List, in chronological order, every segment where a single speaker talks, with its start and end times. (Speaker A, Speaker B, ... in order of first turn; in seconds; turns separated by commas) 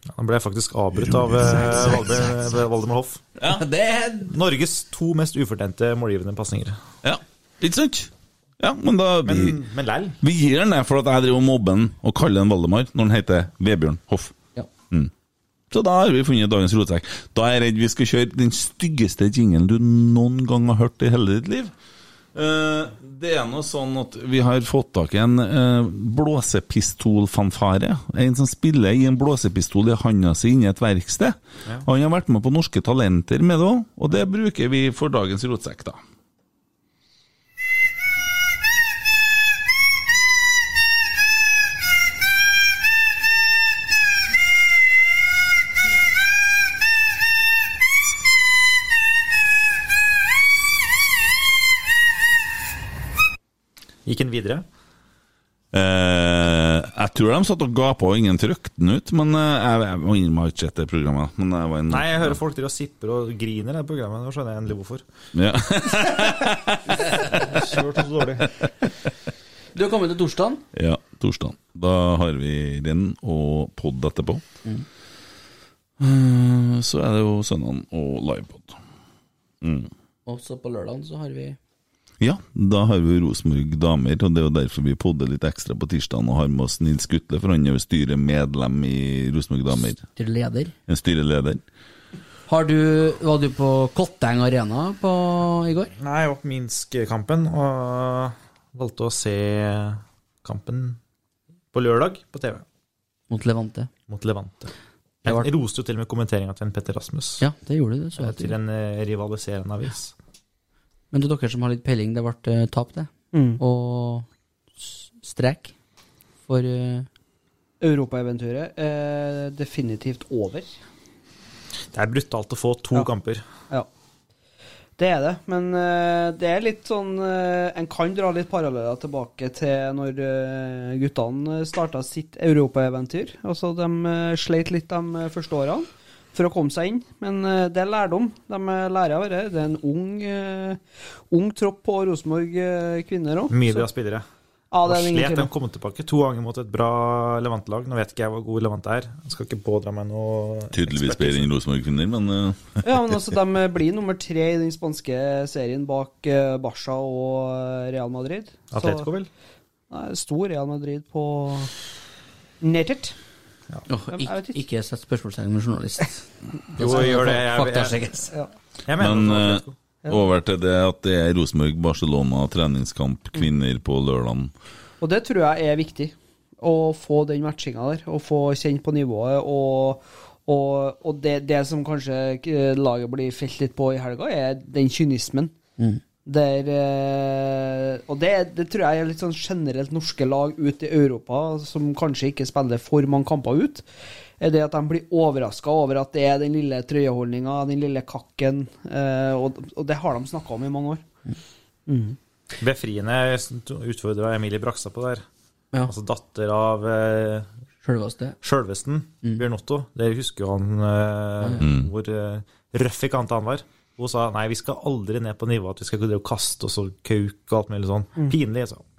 Speaker A: 0.2-3.3, Speaker B: 3.4-4.2, Speaker A: 4.3-6.8, Speaker B: 7.0-9.6, Speaker A: 9.2-10.2, Speaker B: 10.2-14.4, Speaker B: 15.7-21.7, Speaker B: 22.4-36.0, Speaker A: 54.1-54.6, Speaker B: 55.7-62.4, Speaker A: 61.9-65.0, Speaker B: 65.3-67.6, Speaker A: 67.3-68.5, Speaker B: 68.4-68.7, Speaker C: 69.8-70.6, Speaker B: 70.7-74.4, Speaker B: 76.0-78.8, Speaker B: 79.6-79.9, Speaker C: 80.3-81.6, Speaker B: 82.2-90.0, Speaker C: 90.2-90.7, Speaker B: 90.9-91.6, Speaker C: 92.5-95.9, Speaker A: 96.0-101.0, Speaker A: 101.7-102.6, Speaker C: 103.3-103.9, Speaker A: 104.1-104.7, Speaker A: 105.2-107.4, Speaker C: 107.4-108.6, Speaker A: 108.2-110.1, Speaker C: 111.1-114.3, Speaker D: 113.3-113.6, Speaker C: 114.8-115.7, Speaker C: 116.5-117.1, Speaker D: 117.8-120.7, Speaker A: 121.9-123.4, Speaker D: 125.0-143.9, Speaker A: 143.5-144.2, Speaker D: 144.7-145.5, Speaker A: 144.8-151.5, Speaker B: 150.7-153.1, Speaker D: 152.8-159.1, Speaker A: 158.7-159.3, Speaker D: 159.9-161.7, Speaker D: 162.6-163.2, Speaker C: 163.9-168.3, Speaker D: 164.1-164.6, Speaker A: 166.8-168.0, Speaker D: 166.9-167.2, Speaker A: 168.9-169.7, Speaker B: 169.0-174.5, Speaker D: 175.0-185.5, Speaker D: 186.3-193.8, Speaker D: 194.4-201.1, Speaker D: 201.9-202.2, Speaker A: 202.6-205.2, Speaker A: 205.8-207.5, Speaker C: 207.8-208.4, Speaker A: 208.4-218.8, Speaker B: 211.6-211.9